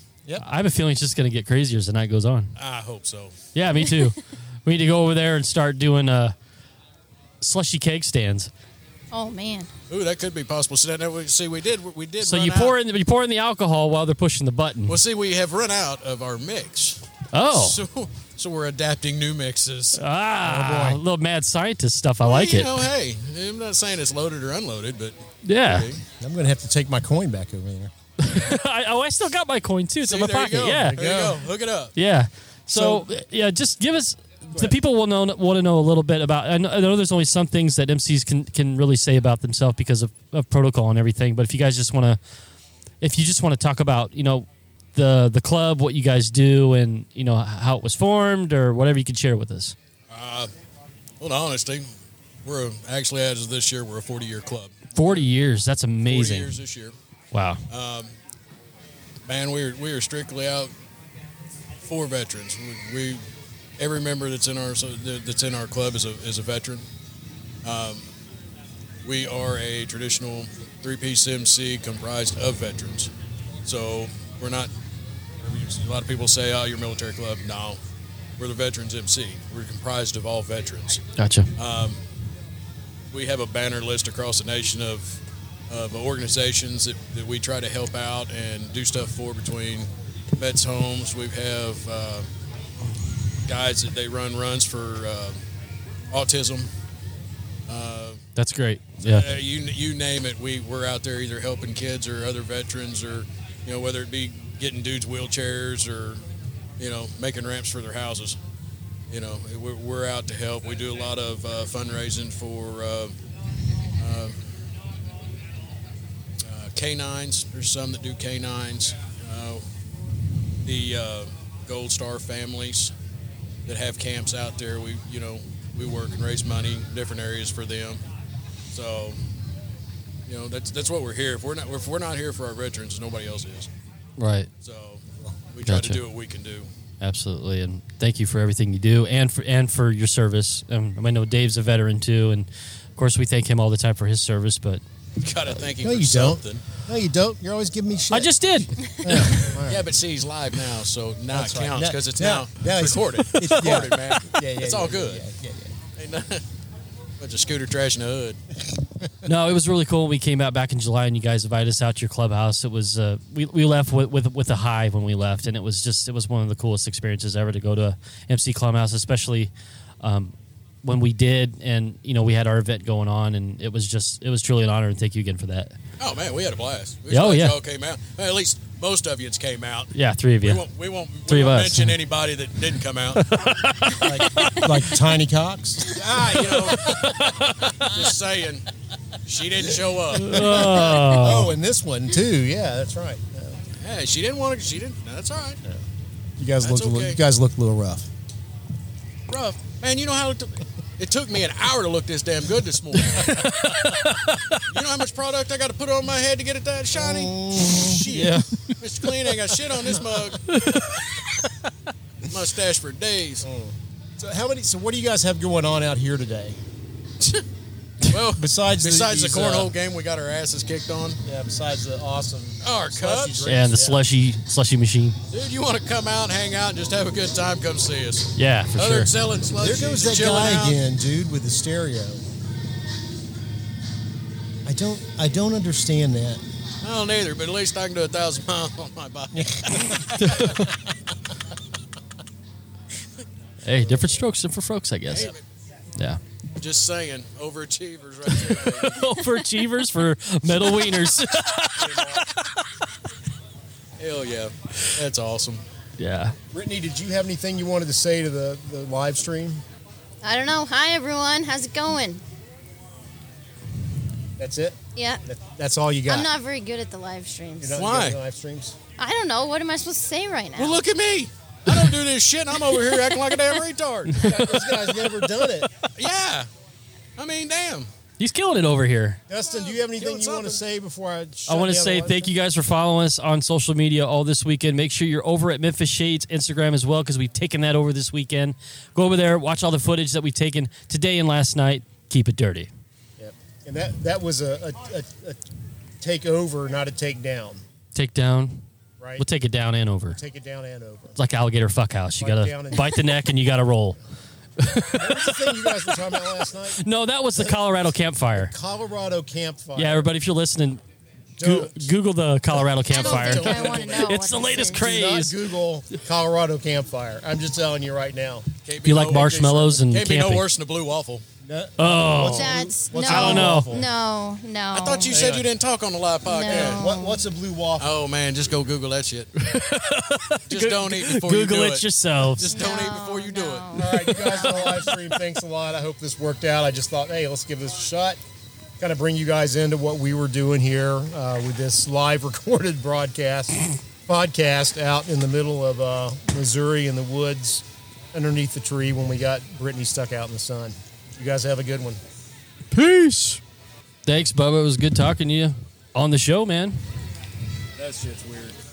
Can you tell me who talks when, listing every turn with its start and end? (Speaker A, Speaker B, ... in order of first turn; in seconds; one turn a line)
Speaker A: 0.4-2.5
Speaker B: 2.5-3.4
Speaker A: 3.5-6.3
Speaker A: 7.4-8.5
Speaker C: 9.1-9.7
Speaker B: 9.9-12.8
Speaker A: 12.2-15.0
Speaker B: 14.8-20.0
Speaker A: 17.3-17.8
Speaker A: 19.9-22.9
Speaker D: 20.4-21.0
Speaker B: 22.2-26.0
Speaker A: 25.4-25.9
Speaker D: 26.2-27.9
Speaker A: 28.2-31.0
Speaker B: 30.0-31.9
Speaker D: 30.8-31.4
Speaker A: 31.9-42.2
Speaker D: 32.7-33.0
Speaker D: 34.5-34.8
Speaker A: 43.0-49.8
Speaker B: 50.1-50.5
Speaker B: 51.2-51.9
Speaker B: 52.4-55.3
Speaker A: 54.9-56.5
Speaker B: 56.0-56.9
Speaker A: 57.3-57.6
Speaker B: 57.7-58.1
Speaker B: 59.2-60.7
Speaker B: 61.8-63.2
Speaker B: 63.8-66.8
Speaker B: 67.6-68.0
Speaker B: 69.0-73.1
Speaker B: 73.6-74.7
Speaker B: 75.4-77.8
Speaker B: 78.4-81.0
Speaker A: 81.2-81.5
Speaker B: 81.6-82.0
Speaker B: 83.1-92.3
Speaker B: 93.5-95.4
Speaker B: 96.1-96.7
Speaker B: 97.7-98.2
Speaker A: 98.3-99.3
Speaker B: 99.0-106.2
Speaker B: 106.8-108.4
Speaker B: 109.1-113.1
Speaker B: 114.0-114.4
Speaker B: 116.4-119.7
Speaker B: 120.6-122.9
Speaker B: 123.7-128.0
Speaker B: 128.7-129.2
Speaker B: 130.3-133.7
Speaker A: 134.2-134.5
Speaker B: 134.6-136.7
Speaker A: 135.6-136.0
Speaker A: 137.0-144.8
Speaker B: 145.2-146.6
Speaker D: 145.8-149.9
Speaker A: 148.1-149.6
Speaker B: 149.7-155.2
Speaker D: 151.3-155.7
Speaker A: 153.3-153.8
Speaker B: 156.0-156.4
Speaker B: 157.2-158.4
Speaker A: 159.2-175.8
Speaker B: 176.0-183.2
Speaker A: 177.1-177.6
Speaker A: 179.9-180.7
Speaker A: 181.3-182.0
Speaker A: 183.2-185.0
Speaker D: 184.0-187.3
Speaker B: 185.8-187.2
Speaker A: 186.8-188.0
Speaker B: 187.8-188.7
Speaker B: 189.2-191.5
Speaker D: 190.1-193.6
Speaker A: 190.1-191.5
Speaker B: 193.8-195.6
Speaker D: 196.4-198.1
Speaker B: 196.6-197.2
Speaker B: 199.3-203.6
Speaker A: 203.1-204.6
Speaker B: 204.7-210.5
Speaker D: 206.9-208.4
Speaker A: 207.8-208.8
Speaker D: 209.8-210.3
Speaker A: 210.5-211.5
Speaker B: 212.3-213.5
Speaker D: 213.4-216.6
Speaker B: 218.1-221.2
Speaker D: 218.3-219.7
Speaker D: 221.2-224.0
Speaker B: 222.6-223.5
Speaker A: 223.4-225.2
Speaker B: 225.3-230.8
Speaker A: 228.3-229.1
Speaker D: 229.6-232.2
Speaker D: 234.6-236.4
Speaker B: 236.8-240.4
Speaker D: 239.3-240.2
Speaker A: 240.0-240.8
Speaker A: 243.6-245.3
Speaker D: 243.8-244.1
Speaker B: 245.1-245.4
Speaker B: 246.6-249.1
Speaker A: 248.3-252.4
Speaker B: 251.8-252.2
Speaker B: 254.0-255.6
Speaker A: 256.0-256.3
Speaker D: 256.5-259.6
Speaker C: 260.2-262.2
Speaker D: 264.4-266.3
Speaker C: 264.9-265.2
Speaker C: 266.1-267.8
Speaker D: 267.6-268.8
Speaker B: 267.8-268.2
Speaker C: 269.0-270.8
Speaker B: 270.6-274.3
Speaker D: 274.1-275.7
Speaker A: 274.1-274.7
Speaker B: 275.9-276.5
Speaker B: 277.2-277.9
Speaker A: 278.2-279.2
Speaker D: 279.3-282.3
Speaker B: 279.5-280.6
Speaker A: 281.5-292.7
Speaker D: 293.2-295.4
Speaker D: 296.0-297.6
Speaker A: 297.9-298.6
Speaker D: 299.0-299.2
Speaker A: 299.2-300.2
Speaker D: 300.1-301.2
Speaker A: 301.1-304.0
Speaker D: 302.2-303.1
Speaker A: 304.6-306.0
Speaker D: 304.9-307.8
Speaker A: 306.7-308.5
Speaker D: 308.3-310.1
Speaker A: 309.8-310.8
Speaker D: 311.4-311.9
Speaker A: 311.4-315.4
Speaker D: 312.5-318.5
Speaker C: 312.9-314.9
Speaker B: 318.6-321.2
Speaker A: 318.8-320.4
Speaker D: 319.1-319.6
Speaker D: 321.4-323.9
Speaker A: 321.8-323.7
Speaker C: 322.2-325.2
Speaker B: 324.7-326.9
Speaker D: 325.1-325.5
Speaker C: 326.2-327.2
Speaker D: 326.5-327.9
Speaker B: 327.8-329.3
Speaker A: 329.4-332.7
Speaker B: 330.5-334.2
Speaker C: 332.5-334.8
Speaker D: 333.7-338.2
Speaker D: 338.8-352.0
Speaker A: 352.7-353.4
Speaker A: 354.0-356.8
Speaker B: 357.8-358.6